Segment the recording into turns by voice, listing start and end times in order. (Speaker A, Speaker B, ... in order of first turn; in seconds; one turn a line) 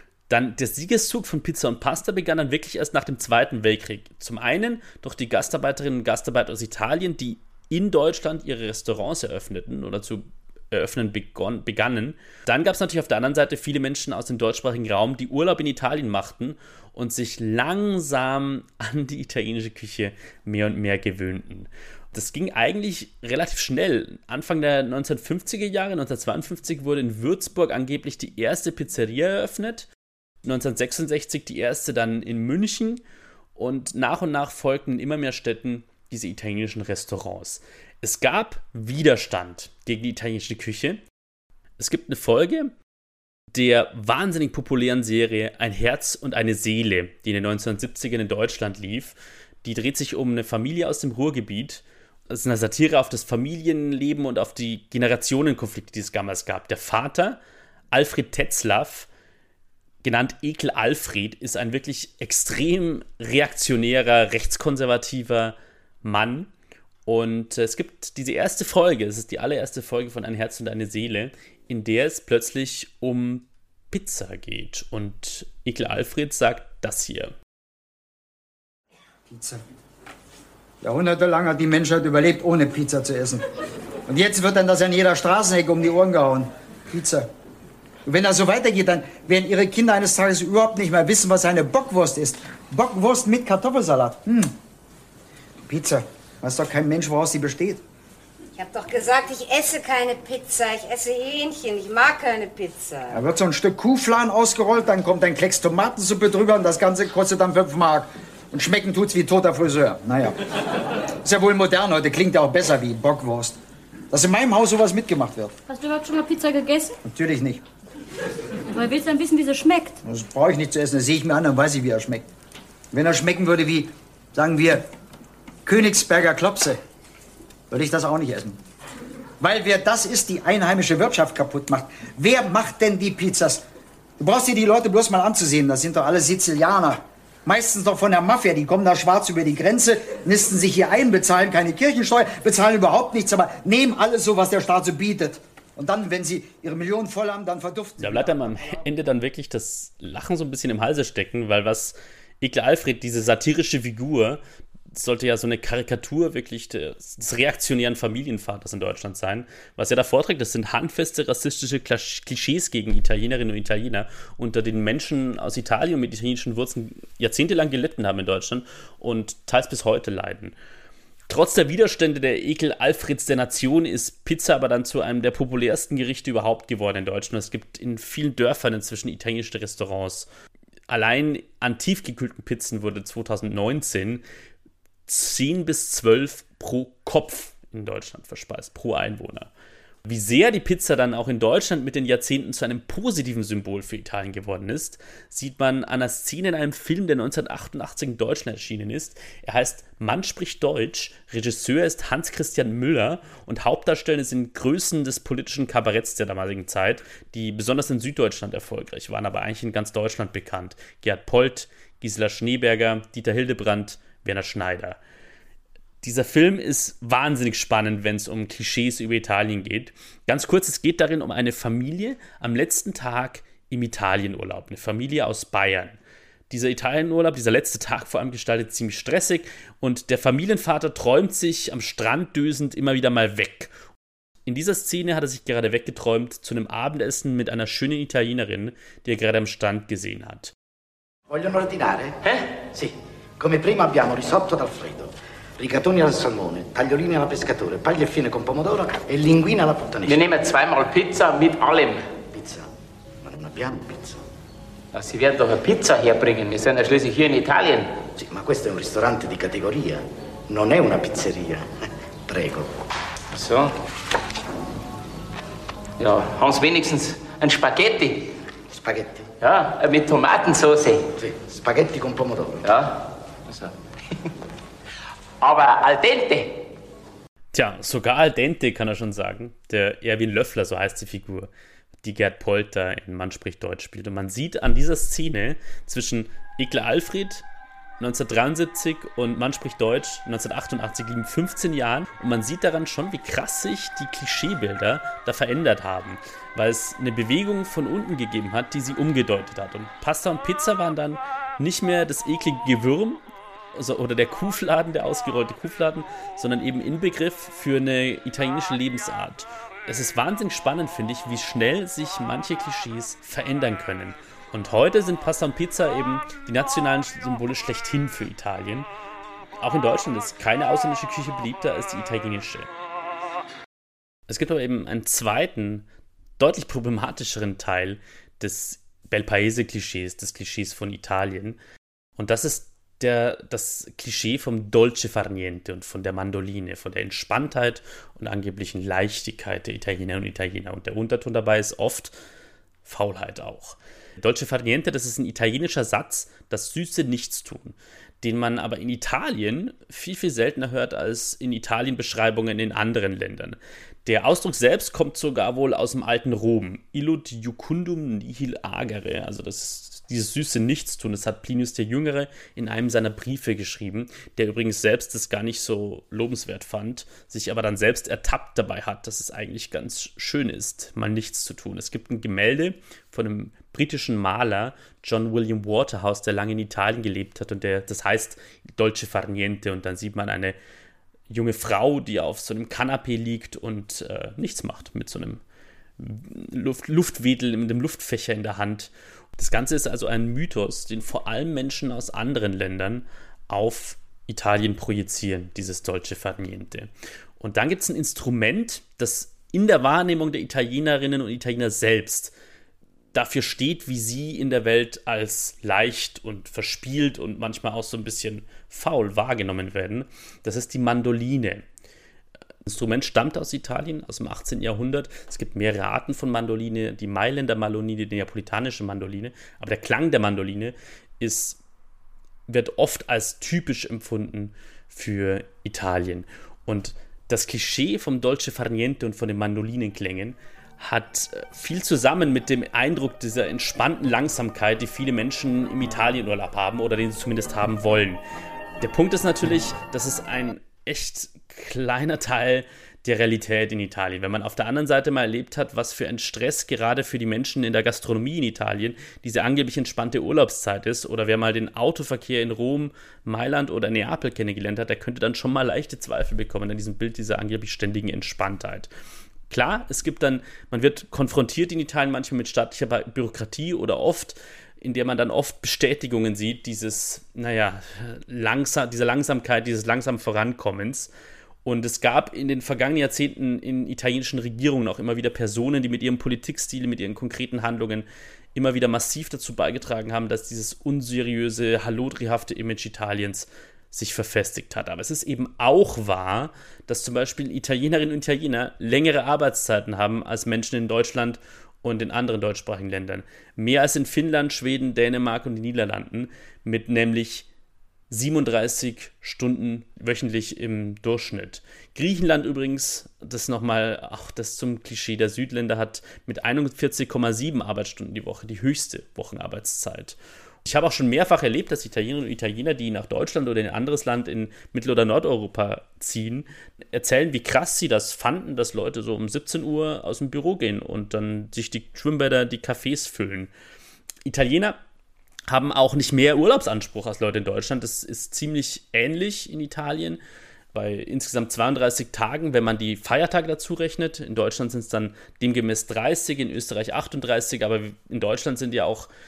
Speaker A: 0.3-29.9
Speaker A: 30.4-33.0
Speaker A: 33.5-41.0
Speaker A: 41.8-42.7
Speaker A: 43.5-57.4
Speaker A: 57.9-59.1
Speaker A: 60.0-66.5
Speaker A: 67.0-77.3
Speaker B: 79.3-79.6
Speaker B: 80.8-83.4
Speaker B: 84.1-87.3
Speaker B: 88.0-94.5
Speaker B: 95.7-97.8
Speaker C: 98.6-103.1
Speaker B: 103.1-110.4
Speaker B: 111.2-113.6
Speaker B: 114.1-115.5
Speaker D: 115.7-117.0
Speaker B: 117.0-117.6
Speaker D: 118.7-120.0
Speaker B: 120.0-122.2
Speaker B: 122.9-124.8
Speaker B: 125.6-126.8
Speaker B: 127.7-128.6
Speaker B: 129.4-133.6
Speaker B: 134.2-148.3
Speaker A: 148.0-170.5
Speaker A: 171.3-180.3
Speaker A: 180.9-184.2
Speaker A: 185.1-189.5
Speaker A: 190.1-215.0
Speaker A: 216.0-226.0
Speaker A: 226.5-233.7
Speaker A: 234.4-240.5
Speaker E: 241.3-242.2
Speaker E: 242.7-250.3
Speaker F: 250.1-252.0
Speaker E: 252.3-252.7
Speaker E: 253.2-254.2
Speaker F: 254.9-258.0
Speaker E: 258.1-262.7
Speaker F: 263.3-263.7
Speaker F: 266.0-268.4
Speaker E: 268.7-269.2
Speaker F: 269.4-271.1
Speaker E: 271.2-272.7
Speaker F: 272.6-273.7
Speaker F: 275.4-276.6
Speaker A: 277.5-281.5
Speaker A: 282.0-287.4
Speaker A: 288.0-303.2
Speaker A: 303.7-318.9
Speaker A: 319.6-322.7
Speaker A: 324.3-325.9
Speaker A: 326.4-331.6
Speaker A: 332.2-342.1
Speaker A: 342.9-380.6
Speaker A: 381.3-385.4
Speaker A: 386.0-402.3
Speaker A: 403.1-411.6
Speaker A: 412.6-421.6
Speaker A: 422.5-438.2
Speaker A: 438.8-458.9
Speaker A: 459.5-471.1
Speaker A: 471.6-497.5
Speaker A: 498.1-523.5
Speaker A: 524.2-524.8
Speaker A: 525.5-530.2
Speaker A: 530.7-539.1